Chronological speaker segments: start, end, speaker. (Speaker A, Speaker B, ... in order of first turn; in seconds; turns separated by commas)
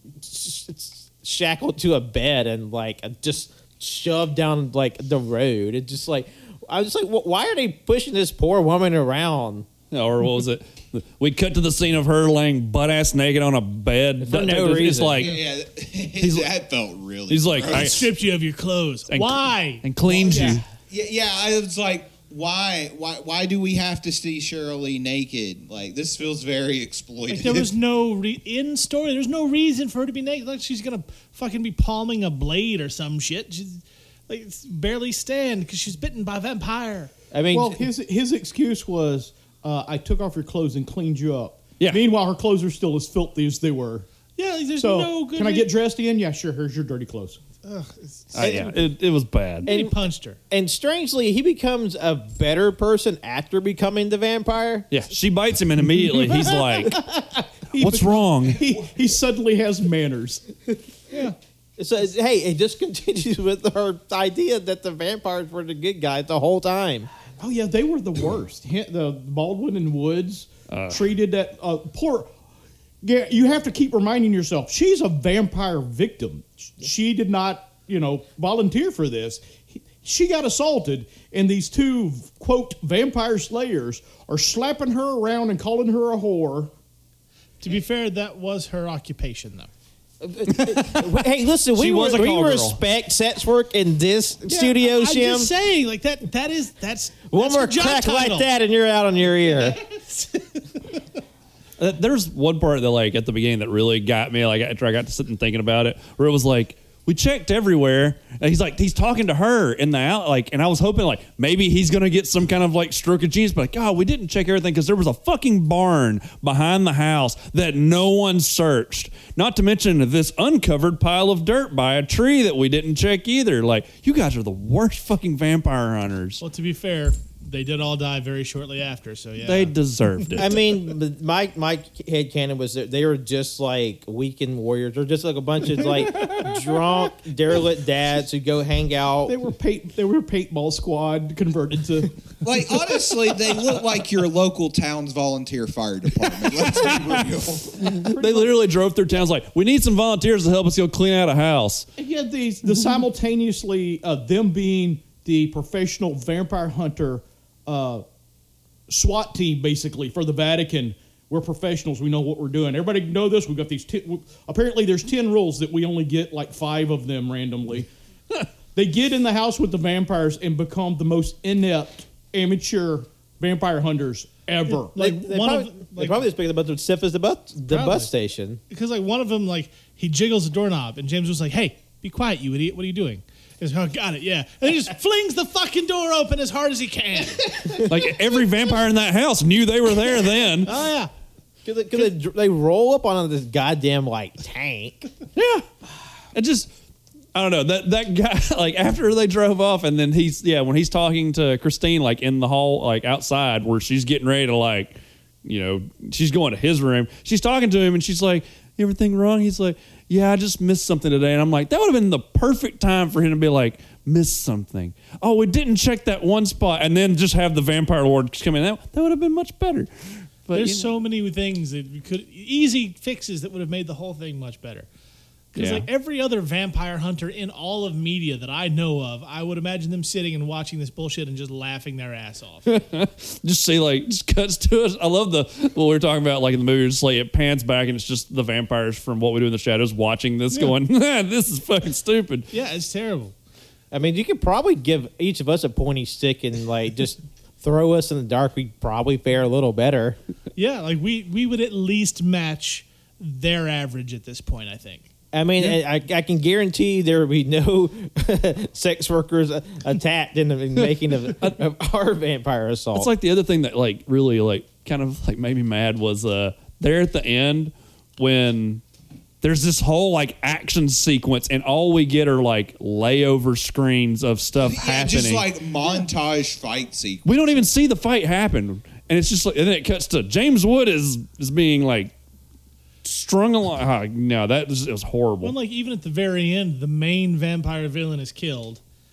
Speaker A: 0.2-9.7, Speaker B: 9.9-15.4, Speaker A: 14.2-15.3, Speaker C: 15.2-18.1, Speaker B: 16.2-16.5, Speaker B: 17.3-18.0, Speaker D: 17.7-19.9, Speaker B: 19.1-20.6, Speaker C: 20.1-27.7, Speaker D: 27.3-37.1, Speaker A: 37.3-37.8, Speaker E: 37.5-44.1, Speaker D: 44.4-45.7, Speaker E: 44.8-47.4, Speaker D: 47.6-48.8, Speaker B: 48.3-49.7, Speaker A: 48.4-48.8, Speaker D: 49.6-50.4, Speaker A: 49.7-50.0, Speaker A: 50.5-54.9, Speaker B: 54.9-57.0, Speaker E: 57.7-60.5, Speaker B: 57.8-58.6, Speaker A: 61.8-67.1, Speaker E: 67.4-72.3, Speaker B: 70.7-71.1, Speaker E: 73.0-86.7, Speaker D: 87.6-89.7, Speaker A: 90.2-95.5, Speaker B: 90.6-91.2, Speaker B: 91.7-92.8, Speaker D: 94.5-98.5, Speaker A: 97.3-99.8, Speaker D: 99.8-101.0, Speaker B: 101.8-126.4, Speaker D: 126.4-129.7, Speaker B: 129.4-130.6, Speaker A: 130.4-139.4, Speaker E: 136.1-136.8, Speaker E: 139.3-142.2, Speaker C: 142.4-147.9, Speaker B: 146.7-147.2, Speaker B: 147.8-151.9, Speaker E: 147.8-148.6, Speaker E: 152.0-158.1, Speaker E: 158.9-167.9, Speaker E: 168.8-174.9, Speaker D: 174.8-176.3, Speaker A: 175.0-178.6, Speaker D: 177.7-178.1, Speaker D: 178.7-187.9, Speaker B: 187.8-190.7, Speaker D: 190.6-191.1, Speaker A: 191.7-195.1, Speaker B: 195.4-195.7, Speaker B: 196.3-196.7, Speaker B: 197.3-220.9, Speaker D: 220.5-224.9, Speaker D: 225.5-232.7, Speaker B: 225.6-225.9, Speaker B: 232.7-242.5, Speaker D: 242.5-243.3, Speaker A: 243.9-250.2, Speaker D: 250.6-255.1, Speaker A: 255.3-263.1, Speaker B: 262.9-268.8, Speaker B: 269.4-275.5, Speaker C: 274.6-277.2, Speaker B: 277.2-282.1, Speaker B: 283.0-285.6, Speaker D: 285.4-288.8